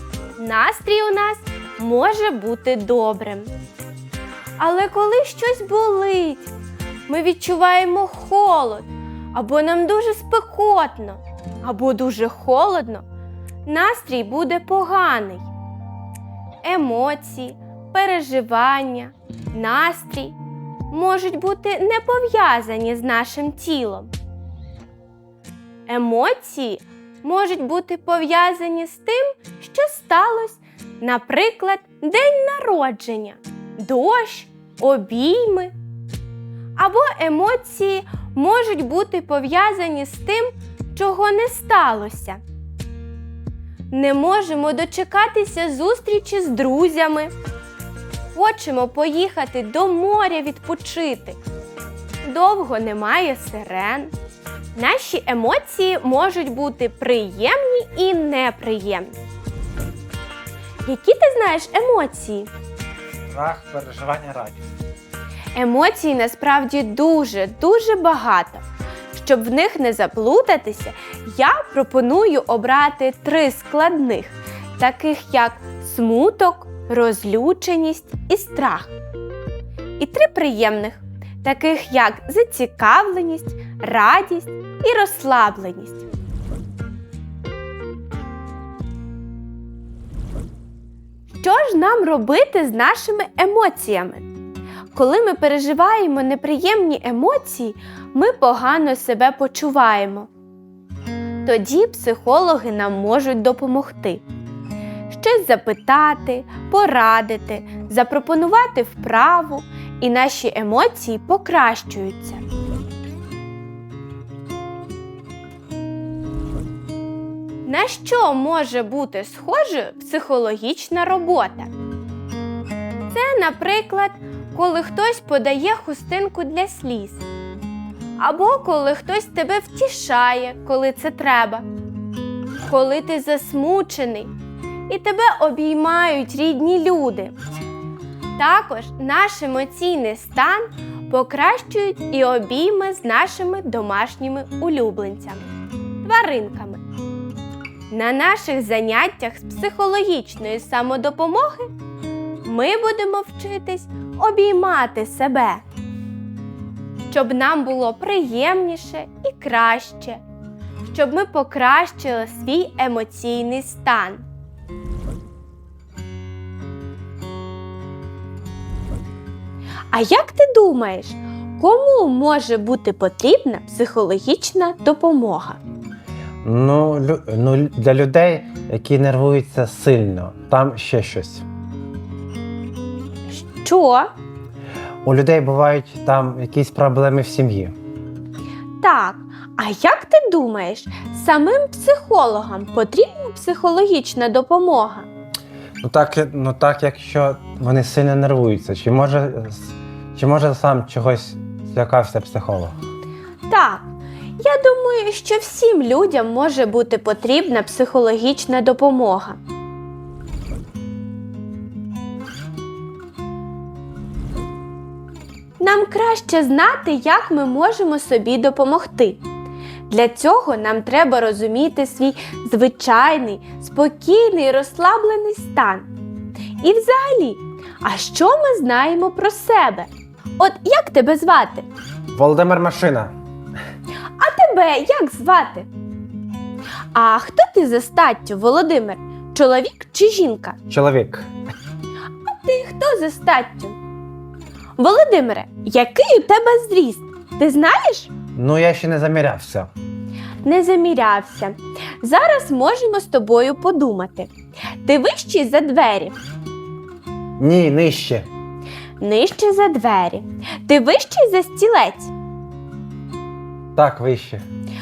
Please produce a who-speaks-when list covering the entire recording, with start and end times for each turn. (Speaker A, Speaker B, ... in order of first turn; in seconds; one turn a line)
Speaker A: 0.4-3.5
Speaker A: 4.6-6.5
Speaker A: 7.1-13.0
Speaker A: 13.7-15.5
Speaker A: 16.6-20.4
Speaker A: 20.9-24.1
Speaker A: 25.9-35.7
Speaker A: 36.8-42.4
Speaker A: 43.9-47.3
Speaker A: 48.3-51.4
Speaker A: 52.2-54.1
Speaker A: 54.7-59.2
Speaker A: 60.8-62.5
Speaker B: 63.3-64.7
Speaker A: 65.5-78.9
Speaker A: 80.0-86.1
Speaker A: 91.3-94.3
Speaker A: 94.9-100.3
Speaker A: 101.4-104.2
Speaker A: 105.1-112.4
Speaker A: 117.6-121.7
Speaker A: 123.1-127.2
Speaker A: 128.2-131.7
Speaker A: 132.6-134.3
Speaker A: 134.9-137.3
Speaker A: 138.4-145.5
Speaker A: 146.0-146.8
Speaker A: 147.9-151.7
Speaker A: 152.4-155.6
Speaker A: 157.1-160.2
Speaker A: 160.8-164.2
Speaker A: 169.9-175.6
Speaker B: 176.4-181.4
Speaker A: 183.3-184.1
Speaker B: 185.0-187.7
Speaker A: 188.8-195.1
Speaker B: 195.8-202.8
Speaker A: 203.5-209.4
Speaker A: 215.6-219.2
Speaker A: 219.9-225.9
Speaker A: 226.6-231.7
Speaker B: 232.1-233.1
Speaker A: 234.2-235.7
Speaker A: 236.9-240.6
Speaker B: 240.7-241.3
Speaker A: 242.2-243.8
Speaker A: 244.8-248.1
Speaker B: 248.3-249.7
Speaker A: 250.4-254.3
Speaker A: 254.8-256.2
Speaker B: 257.4-258.3
Speaker A: 259.0-262.1
Speaker B: 263.8-264.4